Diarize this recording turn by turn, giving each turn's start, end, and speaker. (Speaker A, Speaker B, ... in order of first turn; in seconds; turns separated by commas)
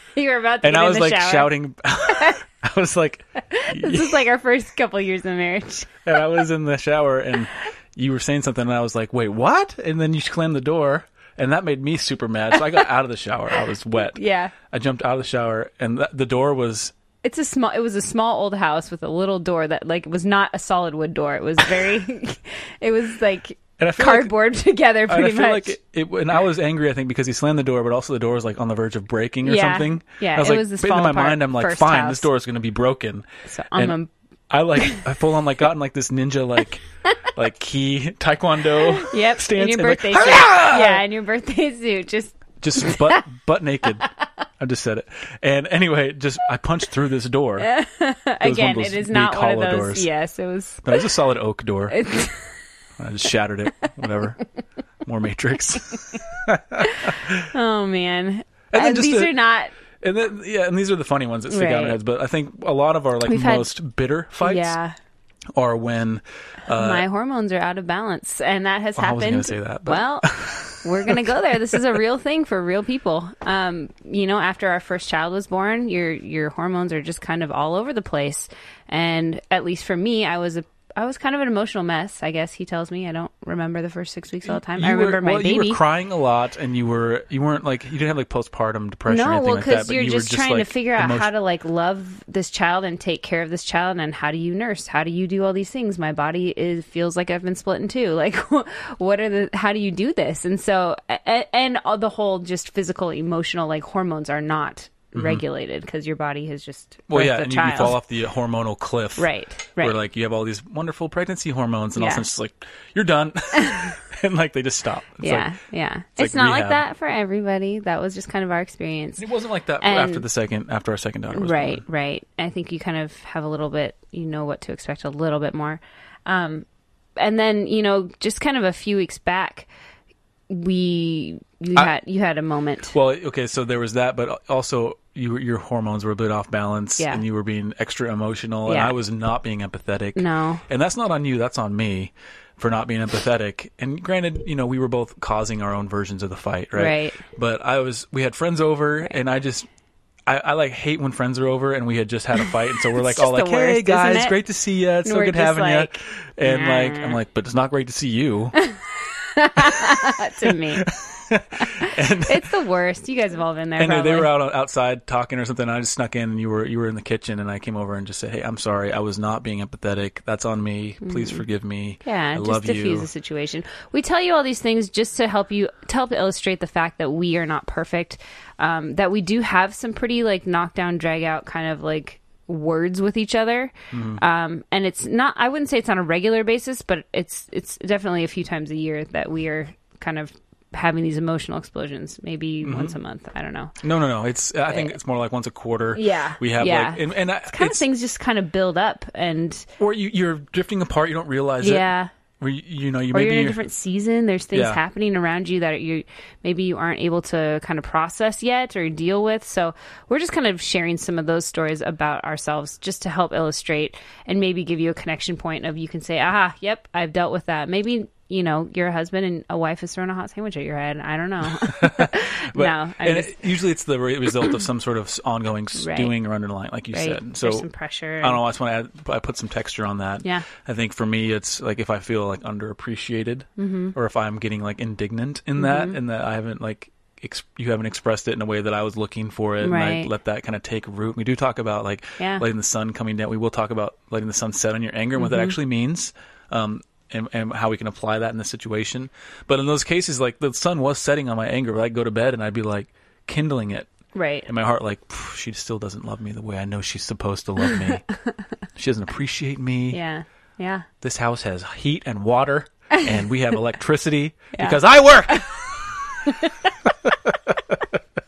Speaker A: 0.1-1.5, Speaker B: 0.6-4.2, Speaker A: 2.1-2.4, Speaker A: 3.4-6.1, Speaker B: 6.0-14.2, Speaker A: 14.0-14.5, Speaker B: 14.7-16.9, Speaker A: 17.2-25.8, Speaker B: 23.8-24.3, Speaker B: 25.1-34.0, Speaker A: 29.4-32.3, Speaker A: 33.5-34.1, Speaker B: 34.5-41.0, Speaker A: 34.8-35.0, Speaker A: 38.9-43.2, Speaker B: 42.6-44.1, Speaker B: 44.6-47.7, Speaker A: 47.6-51.1, Speaker B: 48.4-50.1, Speaker B: 50.8-52.0, Speaker A: 51.9-52.5, Speaker B: 53.0-54.4, Speaker B: 55.0-57.5, Speaker A: 56.8-59.8, Speaker B: 58.7-59.3, Speaker B: 60.0-64.8, Speaker A: 61.5-62.0, Speaker A: 63.2-63.7, Speaker A: 64.4-65.0, Speaker B: 65.6-67.0, Speaker A: 66.7-85.8, Speaker B: 69.0-72.0, Speaker B: 84.5-91.3, Speaker A: 89.1-108.0, Speaker B: 105.1-105.4, Speaker B: 107.1-115.5, Speaker A: 109.2-110.0, Speaker A: 112.0-112.2, Speaker A: 113.6-113.8, Speaker A: 115.2-119.3, Speaker B: 116.2-116.8, Speaker B: 119.2-121.8, Speaker A: 119.8-120.2, Speaker A: 121.3-126.7, Speaker A: 127.2-129.7, Speaker A: 130.5-132.9, Speaker B: 132.9-149.7, Speaker A: 137.0-137.2, Speaker A: 138.7-138.9, Speaker A: 140.2-140.6, Speaker A: 146.8-147.2, Speaker B: 150.2-158.6, Speaker A: 152.8-154.4, Speaker A: 155.0-157.2, Speaker A: 158.6-160.9, Speaker B: 159.6-162.5, Speaker A: 161.6-164.3, Speaker B: 163.8-173.1, Speaker A: 171.0-171.4, Speaker A: 172.0-193.8, Speaker B: 183.9-184.2, Speaker B: 192.6-193.0, Speaker B: 193.8-197.8, Speaker A: 195.9-199.7, Speaker B: 199.8-201.9, Speaker A: 201.6-202.1, Speaker B: 202.4-203.6, Speaker A: 203.1-223.4, Speaker B: 204.5-204.8, Speaker B: 221.6-227.7, Speaker A: 225.8-226.1, Speaker A: 226.9-228.4, Speaker B: 228.2-253.9, Speaker A: 233.6-233.9, Speaker A: 235.6-236.0, Speaker A: 239.6-240.1, Speaker A: 242.2-242.4, Speaker A: 245.2-245.5, Speaker A: 254.1-254.5, Speaker B: 254.5-258.0, Speaker B: 258.8-260.0, Speaker A: 259.9-260.9, Speaker B: 261.0-266.3, Speaker A: 264.5-265.5, Speaker A: 266.2-266.5, Speaker B: 266.9-267.8